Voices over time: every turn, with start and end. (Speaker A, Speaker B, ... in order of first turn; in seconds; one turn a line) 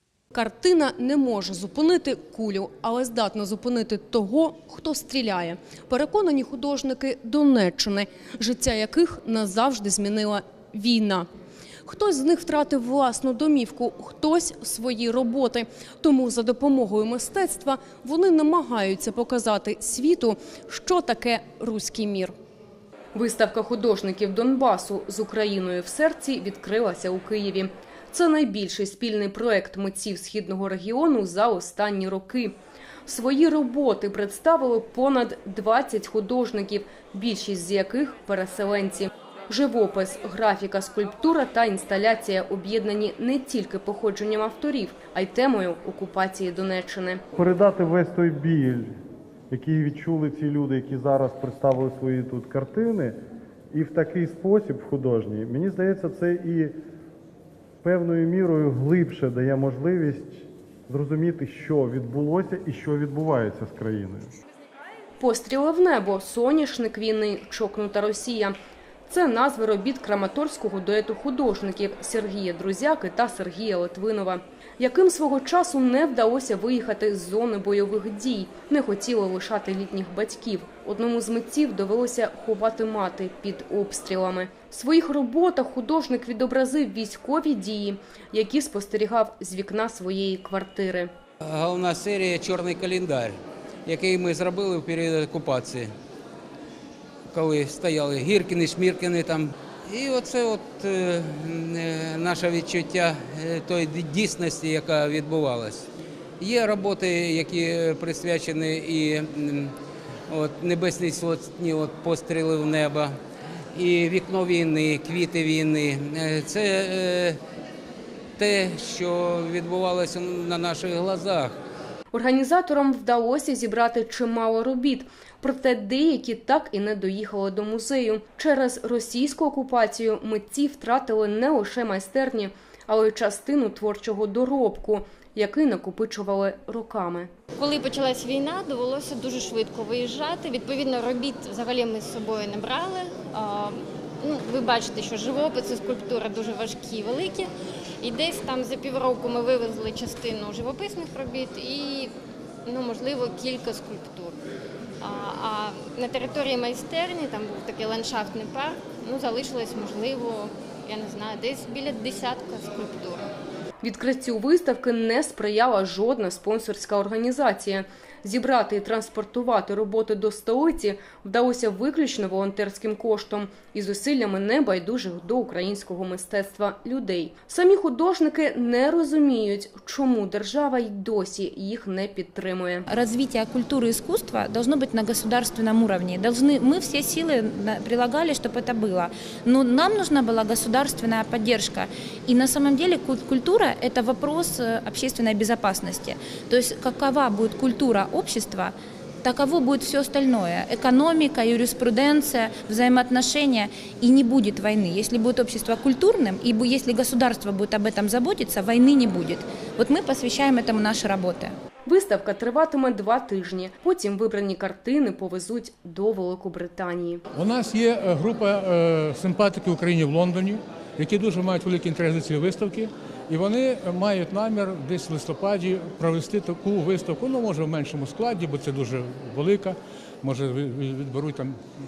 Speaker A: 0.3-11.3
Speaker A: 11.8-22.3
Speaker A: 23.1-32.5
Speaker A: 33.1-47.2
Speaker B: 47.3-48.9
Speaker B: 49.5-53.1
Speaker B: 53.7-56.7
Speaker B: 57.8-64.3
Speaker A: 65.2-68.5
Speaker A: 69.1-91.1
Speaker C: 91.4-95.9
Speaker C: 97.3-105.9
Speaker C: 106.4-109.7
Speaker C: 110.3-113.2
Speaker C: 113.7-117.4
Speaker C: 118.4-121.6
Speaker A: 122.1-137.3
Speaker D: 137.6-152.1
Speaker D: 152.7-154.4
Speaker D: 155.0-163.3
Speaker A: 163.8-182.8
Speaker E: 182.9-211.5
Speaker A: 211.8-217.2
Speaker F: 217.3-231.6